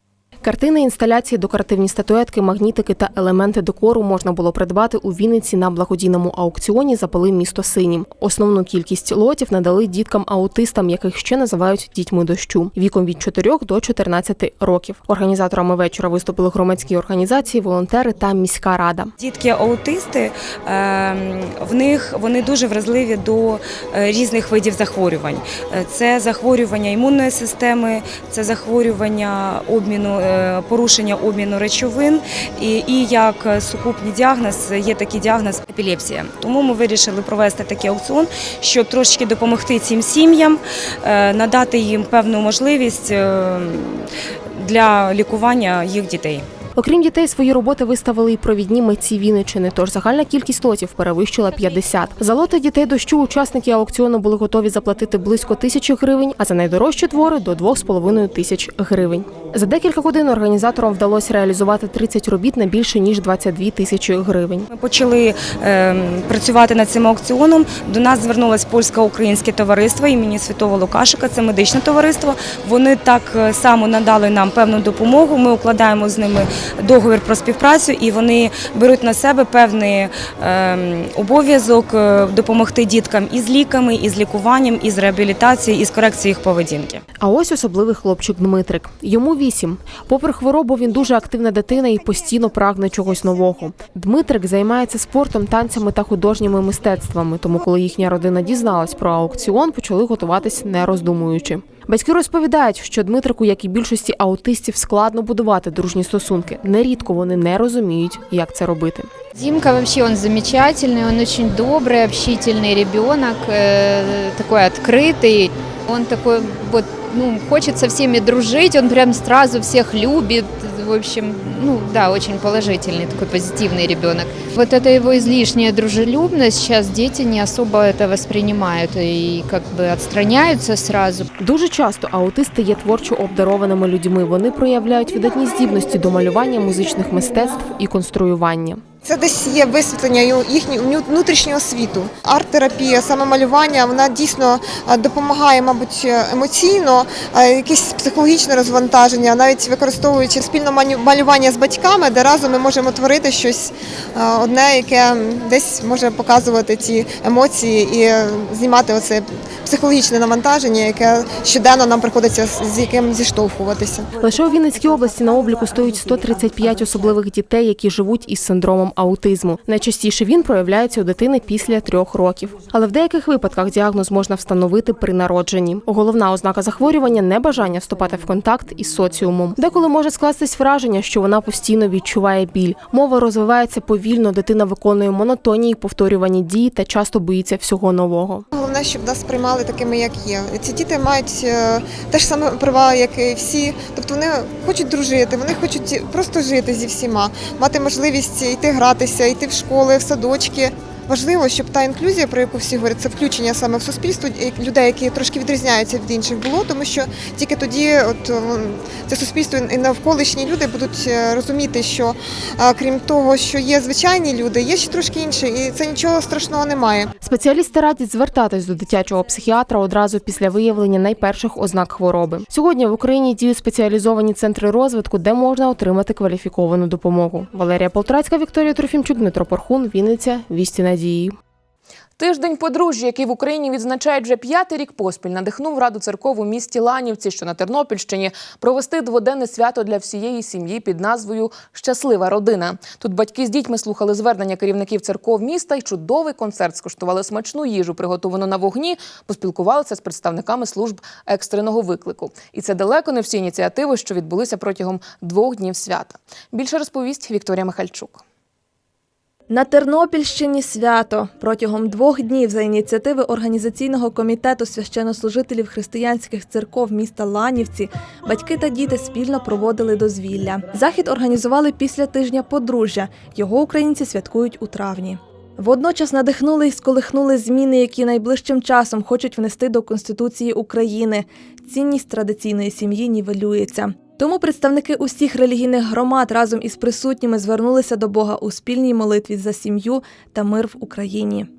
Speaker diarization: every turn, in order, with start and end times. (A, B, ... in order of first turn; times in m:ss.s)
0:00.4-0:19.1 A
0:19.2-0:46.4 B
0:46.8-1:04.6 A
1:04.7-1:27.0 B
1:27.2-1:49.1 A
1:49.3-2:11.3 C
2:11.4-2:18.8 A
2:19.0-2:44.1 D
2:44.2-3:08.4 A
3:08.5-3:37.1 D
3:37.2-3:51.4 A
3:52.2-4:18.2 E
4:19.5-4:51.5 F